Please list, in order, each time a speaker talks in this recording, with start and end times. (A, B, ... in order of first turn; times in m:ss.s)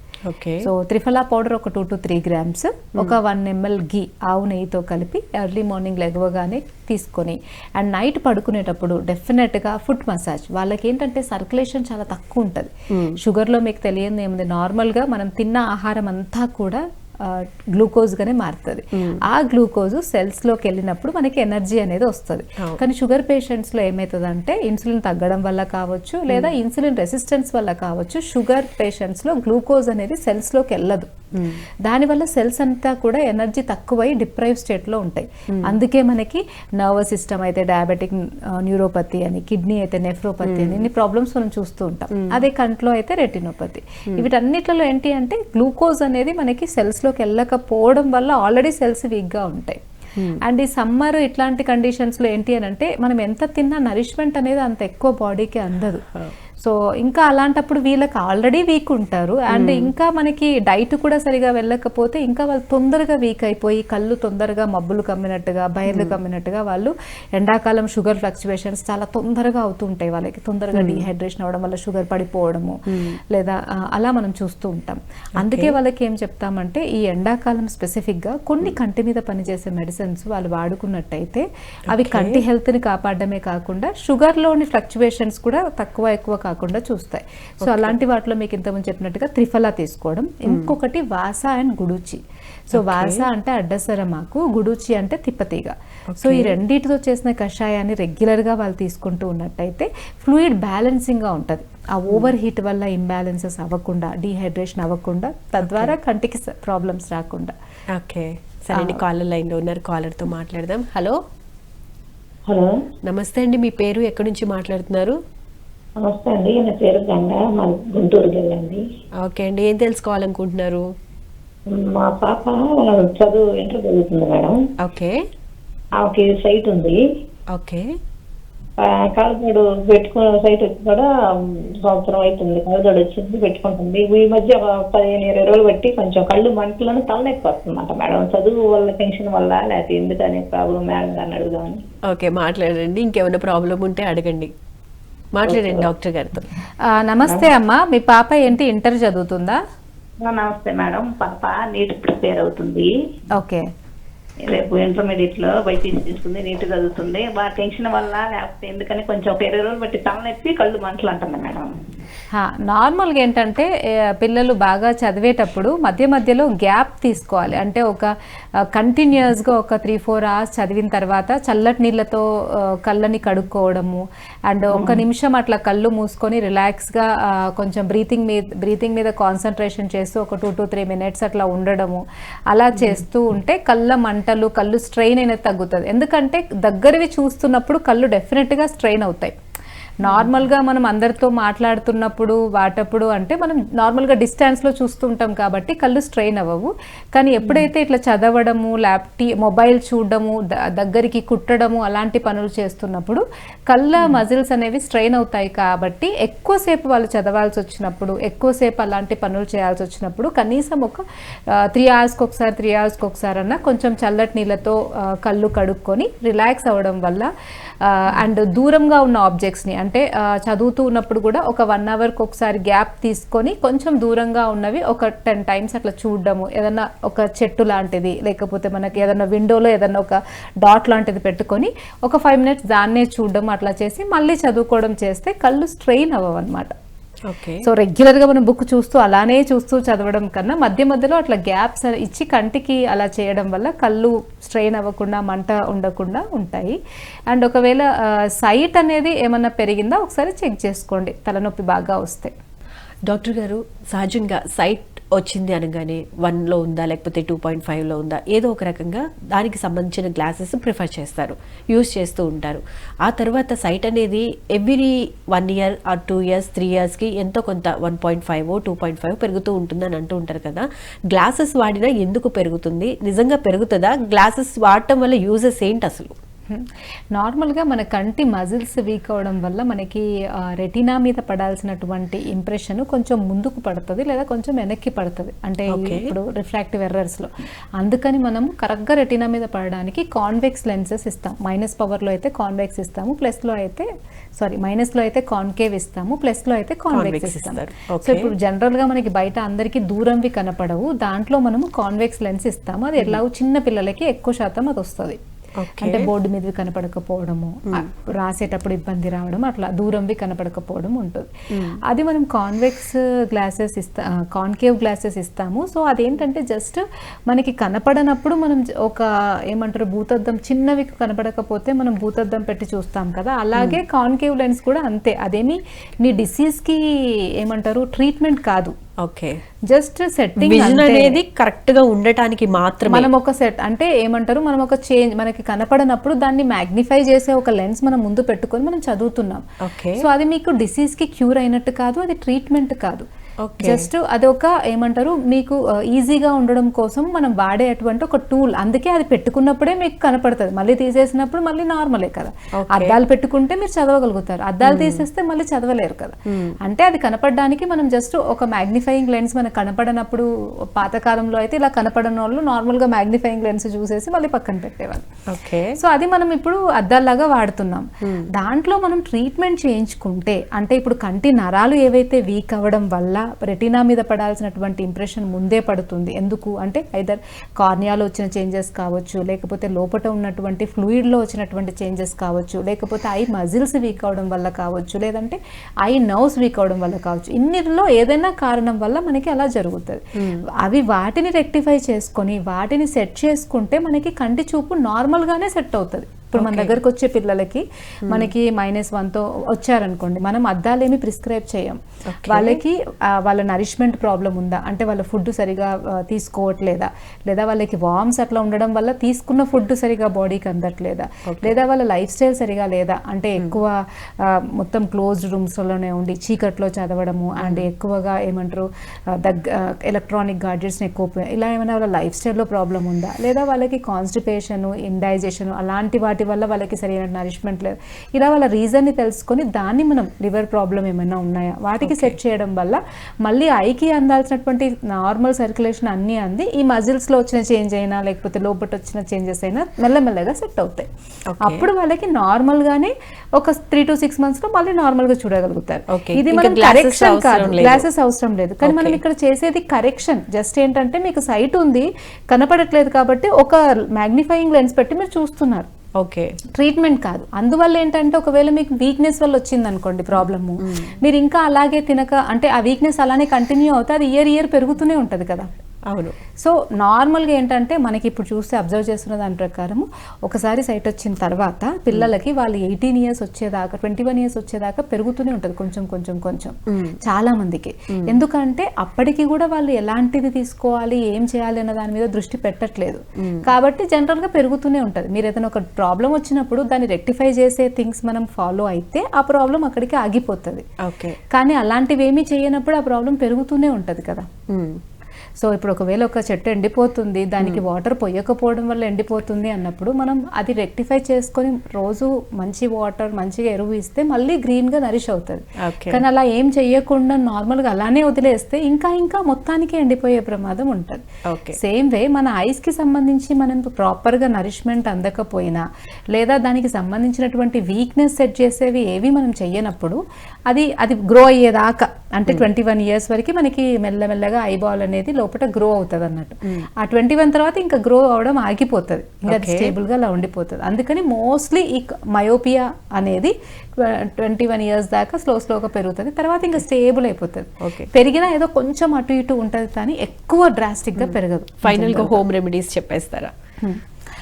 0:00.2-0:00.7 A
0:00.6-0:31.1 B
0:12.9-0:13.2 A
0:18.9-0:19.2 A
0:26.3-0:26.5 A
0:31.3-0:31.6 A
0:31.8-0:49.8 B
0:35.5-0:35.8 A
0:40.4-0:40.8 A
0:42.1-0:42.4 A
0:50.4-0:56.0 B
0:56.6-1:12.8 B
0:59.5-0:59.9 A
1:05.9-1:06.1 A
1:10.7-1:11.0 A
1:12.9-1:13.2 A
1:13.3-1:47.5 B
1:15.4-1:15.8 A
1:21.9-1:22.4 A
1:27.6-1:28.0 A
1:30.5-1:30.7 A
1:32.7-1:33.2 A
1:36.1-1:36.5 A
1:45.6-1:45.9 A
1:47.9-1:51.2 A
1:48.7-1:49.0 B
1:52.5-1:52.8 C
1:53.0-1:55.1 A
1:56.0-1:58.8 C
1:59.2-2:00.8 A
2:01.7-2:04.6 C
2:04.8-2:05.2 A
2:06.0-2:07.0 C
2:07.5-2:07.9 A
2:08.8-2:21.8 C
2:22.1-2:24.5 A
2:25.3-2:26.5 A
2:25.5-2:25.8 C
2:26.8-2:29.6 B
2:30.2-2:32.9 C
2:33.4-2:33.7 B
2:34.4-2:41.7 C
2:42.3-3:09.3 B
2:54.7-2:55.0 A
3:02.8-3:03.0 A
3:10.0-3:37.3 B
3:10.0-3:10.3 A
3:17.4-3:17.7 A
3:37.8-3:56.7 B
3:57.2-3:57.6 A
3:57.6-4:06.8 B
4:07.3-4:12.3 B
4:13.1-4:36.1 A
4:36.5-5:05.2 B
4:45.7-4:46.1 A
4:56.9-4:58.3 A
5:05.6-5:06.1 A
5:05.8-5:11.3 B
5:11.5-5:11.8 A
5:11.8-5:28.7 B
5:23.6-5:23.8 A
5:29.0-5:29.4 A
5:29.7-5:31.2 B
5:30.4-5:33.1 A
5:32.9-5:39.4 B
5:39.6-5:40.0 A
5:40.0-5:43.0 B
5:43.4-5:43.9 A
5:43.6-6:05.1 B
5:52.6-5:52.9 A
5:54.6-5:55.0 A
5:56.2-5:56.6 A
6:05.3-6:05.8 A
6:05.7-7:20.9 B
6:08.0-6:08.3 A
6:30.2-6:30.4 A
6:36.3-6:36.8 A
6:38.1-6:38.3 A
6:42.1-6:42.6 A
6:51.2-6:51.6 A
7:11.8-7:12.2 A
7:21.3-7:21.7 A
7:21.4-7:35.7 B
7:25.9-7:27.9 A
7:28.6-7:29.0 A
7:36.0-7:36.4 A
7:36.5-7:45.5 B
7:40.6-7:41.0 A
7:45.9-7:46.2 A
7:46.4-8:10.6 B
7:56.7-7:57.0 A
7:57.9-7:58.2 A
8:03.2-8:03.4 A
8:10.8-8:11.2 A
8:11.3-8:14.3 B
8:14.5-8:14.8 A
8:15.4-8:31.0 B
8:25.6-8:26.0 A
8:31.3-8:31.6 A
8:31.5-9:02.2 B
8:49.3-8:49.7 A
8:57.6-8:57.9 A
9:01.0-9:03.3 A